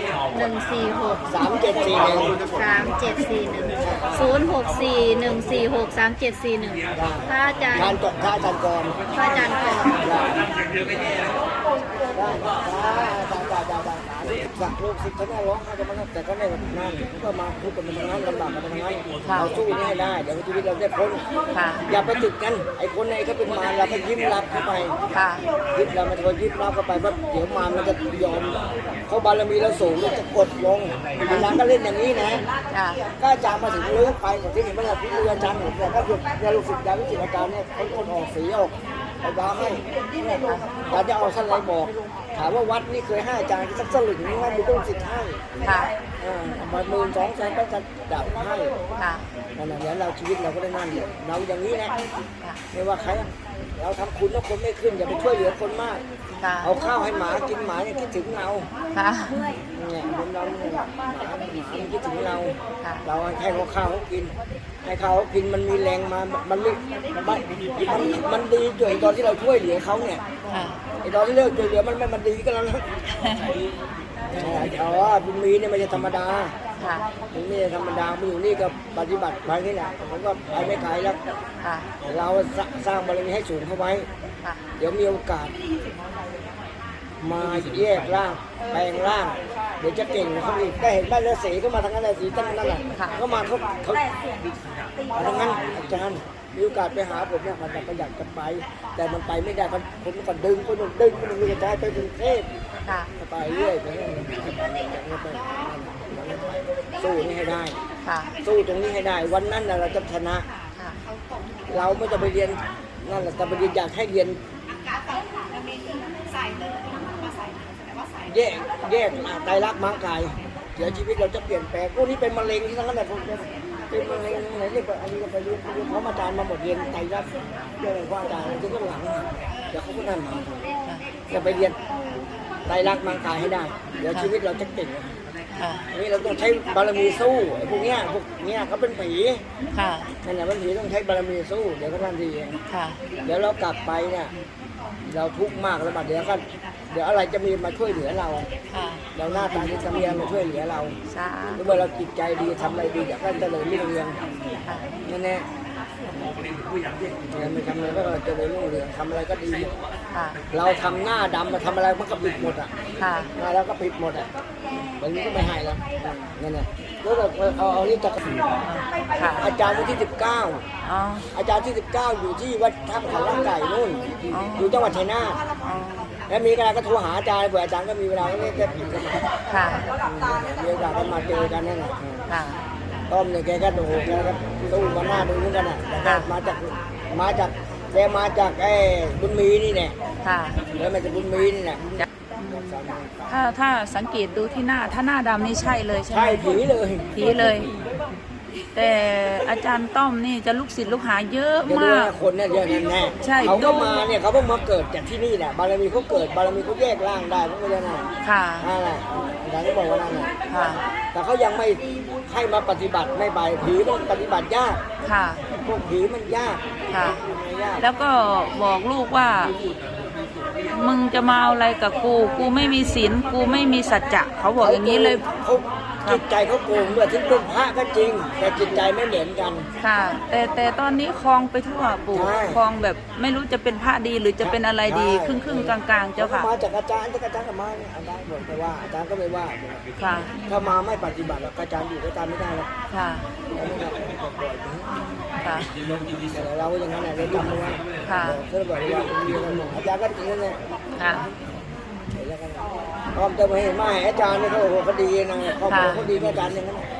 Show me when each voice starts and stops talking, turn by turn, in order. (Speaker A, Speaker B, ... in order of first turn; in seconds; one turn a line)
Speaker A: 0.3-1.2
Speaker B: 1.2-2.4
Speaker A: 2.4-8.0
Speaker B: 3.8-4.2
Speaker B: 6.9-9.0
Speaker A: 9.2-10.1
Speaker B: 10.0-10.4
Speaker B: 12.1-21.2
Speaker C: 19.3-19.5
Speaker C: 21.5-21.8
Speaker B: 21.9-25.0
Speaker C: 25.1-25.4
Speaker B: 25.8-32.5
Speaker C: 32.7-33.0
Speaker B: 33.2-39.8
Speaker B: 40.9-45.4
Speaker B: 46.2-48.7
Speaker C: 49.0-49.3
Speaker B: 49.6-51.9
Speaker B: 52.7-56.0
Speaker C: 56.4-56.7
Speaker B: 56.6-58.7
Speaker C: 59.0-59.5
Speaker B: 59.7-70.2
Speaker C: 70.5-70.8
Speaker B: 71.0-72.9
Speaker B: 74.3-76.5
Speaker B: 77.3-81.2
Speaker B: 82.1-84.1
Speaker B: 84.8-85.6
Speaker B: 87.2-94.0
Speaker B: 95.1-102.5
Speaker B: 103.2-107.8
Speaker C: 108.1-108.3
Speaker B: 108.4-110.5
Speaker B: 111.7-114.4
Speaker B: 118.3-127.3
Speaker B: 127.8-130.6
Speaker B: 131.3-131.8
Speaker B: 132.7-135.2
Speaker C: 135.6-135.8
Speaker B: 135.9-139.4
Speaker C: 139.7-140.1
Speaker B: 140.2-142.6
Speaker C: 142.7-143.0
Speaker B: 143.2-144.3
Speaker B: 145.1-148.5
Speaker C: 148.7-149.0
Speaker B: 149.2-151.0
Speaker C: 151.1-151.6
Speaker B: 151.6-154.2
Speaker B: 155.1-155.5
Speaker B: 157.3-159.8
Speaker B: 160.5-162.7
Speaker C: 163.0-163.3
Speaker B: 163.4-164.3
Speaker B: 165.0-168.2
Speaker C: 168.6-169.4
Speaker B: 169.3-170.6
Speaker C: 170.8-171.3
Speaker B: 171.3-175.4
Speaker C: 174.3-175.0
Speaker C: 175.7-176.1
Speaker B: 176.3-179.3
Speaker C: 179.5-179.9
Speaker B: 180.0-182.2
Speaker C: 182.3-182.6
Speaker B: 183.1-190.0
Speaker C: 190.2-190.6
Speaker B: 190.7-193.4
Speaker C: 192.4-192.8
Speaker C: 193.3-196.6
Speaker B: 196.1-197.7
Speaker C: 197.1-197.7
Speaker C: 198.7-202.1
Speaker B: 201.7-210.3
Speaker C: 203.2-204.0
Speaker C: 208.2-208.7
Speaker C: 210.5-210.8
Speaker B: 211.1-214.8
Speaker C: 215.0-215.4
Speaker B: 215.5-216.6
Speaker C: 216.9-217.2
Speaker B: 217.2-217.8
Speaker C: 217.8-219.6
Speaker C: 220.7-225.2
Speaker B: 224.6-229.7
Speaker C: 229.8-236.5
Speaker B: 232.1-232.6
Speaker B: 234.4-239.8
Speaker C: 240.0-240.3
Speaker B: 240.5-242.7
Speaker C: 242.9-243.3
Speaker B: 243.6-244.9
Speaker C: 245.4-245.7
Speaker B: 246.3-250.6
Speaker C: 248.1-248.4
Speaker C: 251.0-251.3
Speaker B: 252.1-256.9
Speaker C: 255.7-256.1